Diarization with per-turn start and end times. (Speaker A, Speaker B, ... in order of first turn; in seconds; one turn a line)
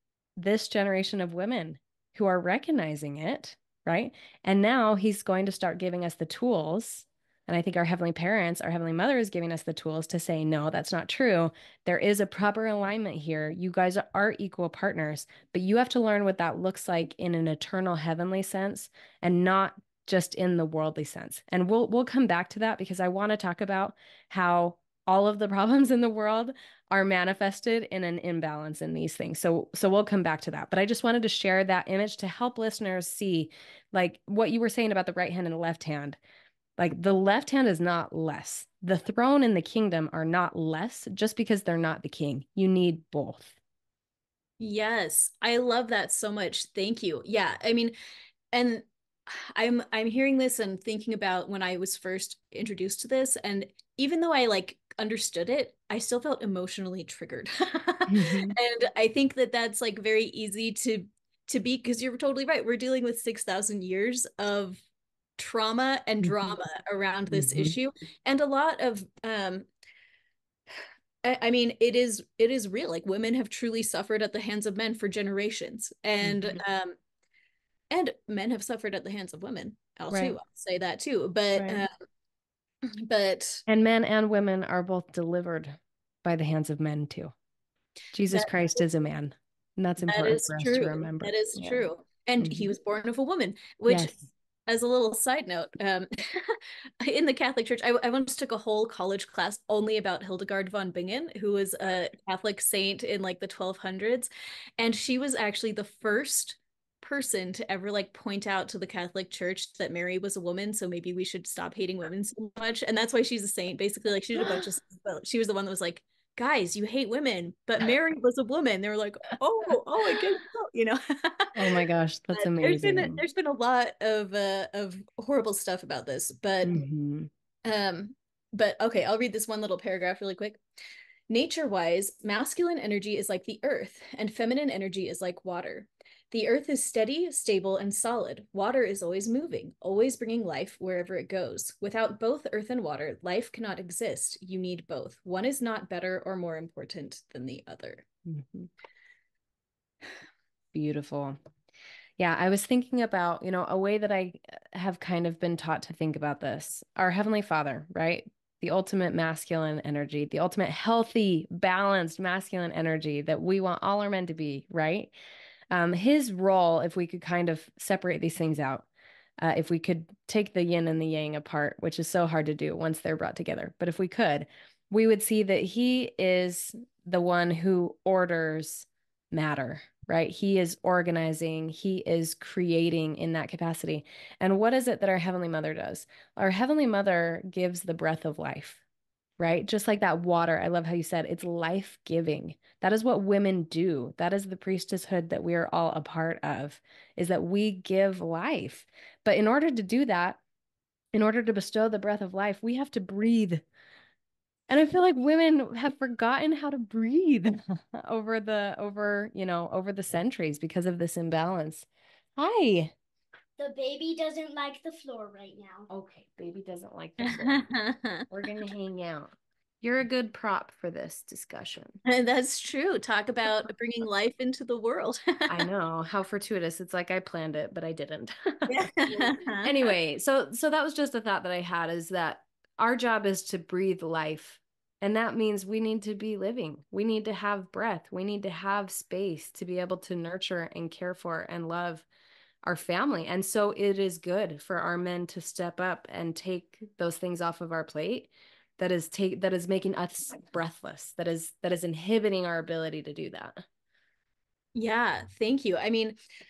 Speaker A: 0.4-36.2
Speaker A: 36.8-43.6
Speaker B: 44.6-47.9
Speaker B: 48.5-64.8
Speaker A: 58.1-58.6
Speaker B: 65.4-69.7
Speaker A: 66.2-66.5
Speaker A: 67.3-67.8
Speaker B: 71.2-77.0
Speaker A: 76.2-76.6
Speaker B: 77.9-81.9
Speaker A: 80.1-80.4
Speaker A: 81.5-81.8
Speaker B: 83.0-83.6
Speaker A: 83.7-87.3
Speaker A: 88.1-91.8
Speaker B: 90.1-94.2
Speaker A: 92.4-92.7
Speaker A: 93.9-94.2
Speaker B: 94.7-121.8
Speaker A: 121.6-123.2
Speaker B: 122.3-126.8
Speaker A: 126.6-127.3
Speaker B: 127.7-130.6
Speaker B: 131.3-148.1
Speaker A: 148.3-148.7
Speaker A: 150.7-151.4
Speaker A: 152.2-165.1
Speaker A: 165.7-168.9
Speaker A: 169.4-188.8
Speaker A: 189.4-200.4
Speaker A: 201.1-203.6
Speaker A: 204.7-212.9
Speaker C: 213.6-215.9
Speaker A: 215.9-217.6
Speaker B: 217.2-218.2
Speaker A: 218.3-219.3
Speaker A: 219.8-222.0
Speaker B: 222.1-225.6
Speaker A: 225.5-242.1
Speaker B: 228.7-229.7
Speaker A: 242.6-253.6
Speaker B: 254.8-256.2